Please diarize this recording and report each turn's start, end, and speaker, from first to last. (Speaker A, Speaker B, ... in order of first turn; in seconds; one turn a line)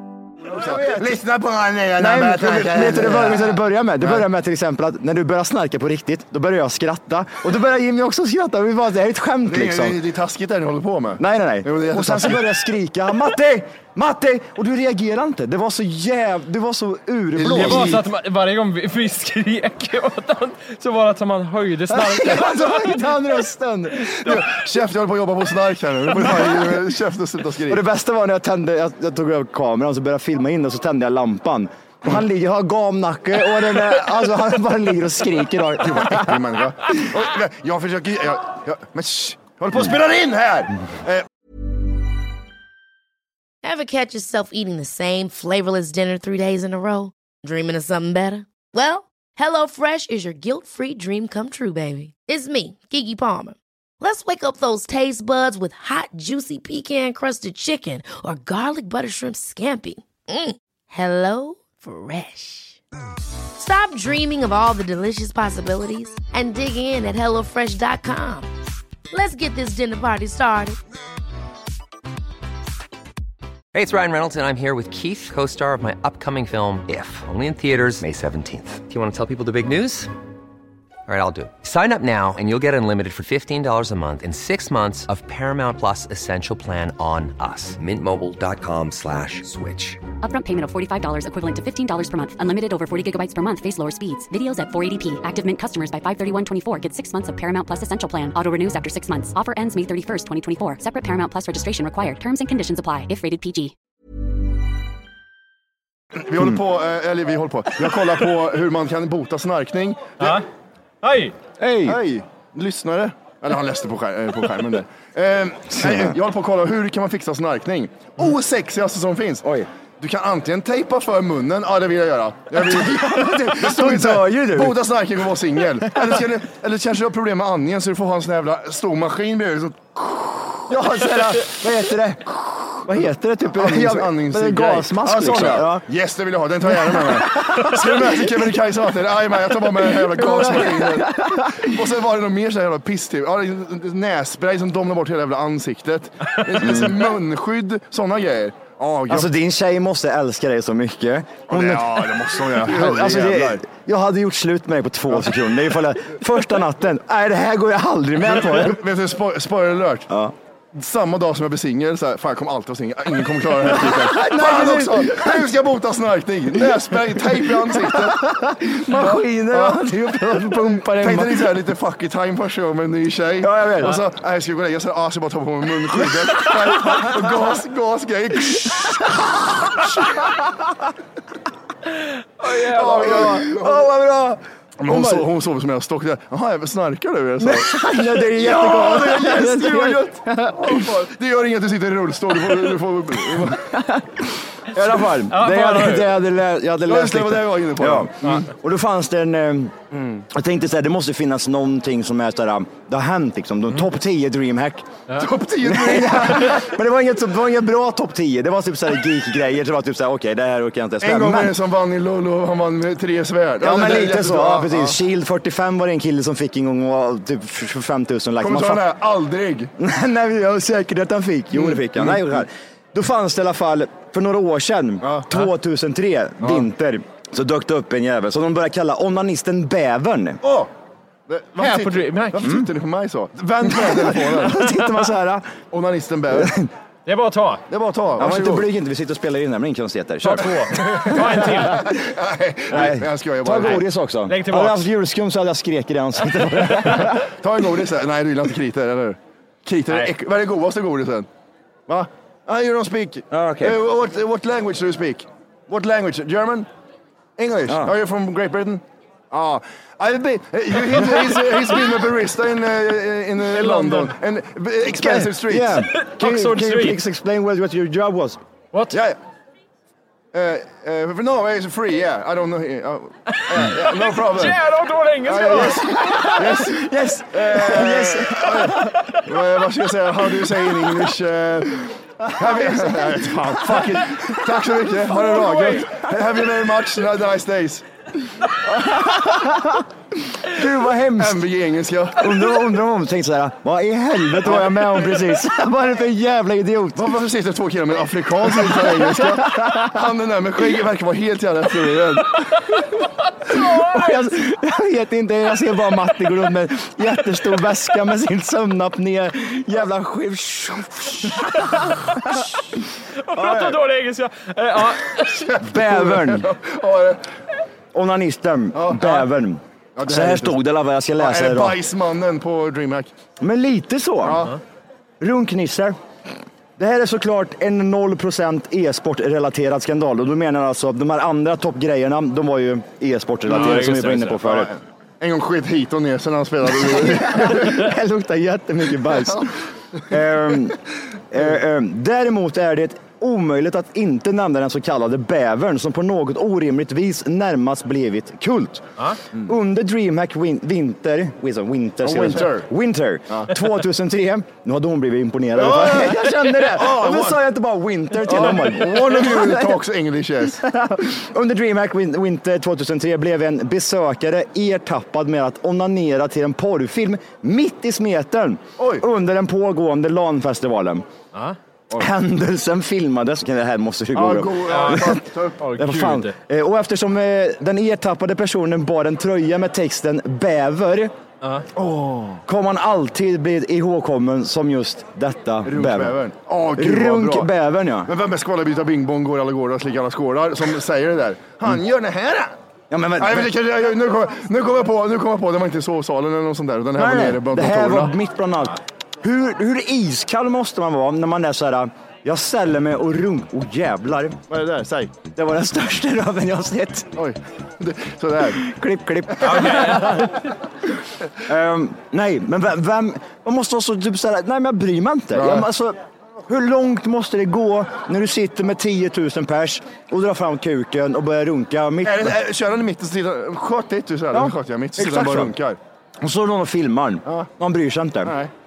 Speaker A: 0.5-4.2
Speaker B: 0.5-1.2
Speaker B: 2.0-10.0
Speaker A: 9.4-12.5
Speaker B: 11.2-18.0
Speaker A: 17.4-18.0
Speaker C: 17.5-23.1
Speaker B: 21.9-24.1
Speaker C: 24.1-24.3
Speaker A: 24.2-27.8
Speaker B: 26.1-26.8
Speaker B: 27.7-36.4
Speaker A: 35.8-41.3
Speaker D: 43.6-62.8
Speaker D: 63.6-68.5
Speaker D: 69.1-70.8
Speaker E: 73.7-80.1
Speaker E: 81.1-90.0
Speaker F: 90.2-103.7
Speaker A: 106.2-110.4
Speaker C: 111.0-111.3
Speaker B: 111.6-112.0
Speaker A: 111.8-119.5
Speaker B: 115.8-116.2
Speaker B: 119.4-119.7
Speaker A: 120.0-130.7
Speaker B: 122.5-124.8
Speaker B: 130.7-135.8
Speaker A: 133.5-149.3
Speaker B: 136.7-138.4
Speaker B: 139.8-141.8
Speaker B: 146.6-147.0
Speaker B: 149.1-158.8
Speaker A: 151.5-153.6
Speaker A: 158.3-160.1
Speaker B: 160.1-160.3
Speaker A: 160.7-168.3
Speaker B: 163.7-165.5
Speaker B: 166.7-171.6
Speaker A: 168.8-169.9
Speaker A: 170.8-180.2
Speaker B: 173.4-174.0
Speaker B: 176.5-177.2
Speaker B: 178.5-180.3
Speaker C: 182.4-183.1
Speaker A: 182.6-183.9
Speaker B: 182.7-185.3
Speaker A: 184.8-193.7
Speaker B: 187.4-190.9
Speaker B: 193.4-199.8
Speaker C: 195.2-196.2
Speaker A: 196.9-198.4
Speaker A: 199.9-200.2
Speaker B: 200.3-204.9
Speaker A: 205.2-206.7
Speaker B: 205.6-211.6
Speaker A: 211.0-215.0
Speaker B: 213.6-218.8
Speaker A: 218.4-219.7
Speaker B: 219.8-230.4
Speaker A: 221.5-222.4
Speaker A: 225.0-225.3
Speaker A: 226.4-226.7
Speaker A: 230.4-230.7
Speaker A: 231.3-234.7
Speaker C: 231.6-232.5
Speaker B: 232.4-232.7
Speaker B: 233.6-235.6
Speaker A: 235.7-236.5
Speaker B: 236.3-236.7
Speaker C: 237.1-237.6
Speaker A: 237.7-238.7
Speaker B: 238.2-242.0
Speaker C: 240.2-241.9
Speaker A: 241.5-243.8
Speaker B: 242.7-247.2
Speaker C: 243.6-244.9
Speaker A: 246.9-251.3
Speaker A: 251.9-256.7
Speaker B: 253.3-253.8
Speaker A: 257.4-265.9
Speaker B: 257.7-257.9
Speaker C: 263.6-264.1
Speaker B: 264.9-268.4
Speaker C: 265.9-267.0
Speaker C: 268.7-269.0
Speaker A: 268.9-269.2
Speaker A: 270.3-274.6
Speaker C: 273.5-276.4
Speaker A: 275.2-287.9
Speaker B: 275.6-278.9
Speaker B: 282.3-284.3
Speaker C: 285.1-285.9
Speaker B: 288.7-289.9
Speaker B: 290.5-291.5
Speaker A: 291.2-292.6
Speaker B: 292.2-297.1
Speaker A: 294.4-294.9
Speaker A: 297.0-302.5
Speaker B: 298.6-300.0
Speaker C: 303.4-304.1
Speaker B: 303.5-312.5
Speaker C: 311.6-312.5
Speaker C: 313.2-315.6
Speaker B: 313.4-313.8
Speaker A: 315.5-317.2
Speaker B: 315.6-316.5
Speaker B: 317.9-321.8
Speaker A: 318.7-319.2
Speaker A: 320.0-320.6
Speaker A: 321.2-323.1
Speaker B: 323.4-324.5
Speaker A: 324.2-324.6
Speaker B: 325.2-326.0
Speaker B: 326.8-334.7
Speaker C: 333.5-334.4
Speaker A: 334.4-337.9
Speaker B: 336.7-339.6
Speaker B: 340.1-340.8
Speaker B: 341.3-359.8
Speaker A: 352.0-352.7
Speaker A: 355.6-357.4
Speaker A: 358.2-360.6
Speaker B: 360.4-371.1
Speaker A: 368.8-369.0
Speaker B: 372.0-381.1
Speaker A: 374.1-375.6
Speaker C: 374.7-376.3
Speaker A: 381.8-382.4
Speaker B: 382.5-386.2
Speaker A: 385.6-387.5
Speaker B: 386.8-388.1
Speaker A: 388.1-392.5
Speaker B: 392.9-393.5
Speaker A: 393.2-398.1
Speaker B: 397.0-404.4
Speaker A: 404.5-405.1
Speaker B: 405.3-407.1
Speaker A: 407.2-408.6
Speaker B: 408.6-410.3
Speaker C: 409.4-410.4
Speaker B: 411.4-422.4
Speaker A: 415.3-415.7
Speaker A: 422.0-425.8
Speaker B: 424.3-425.5
Speaker B: 426.2-428.4
Speaker A: 428.2-428.5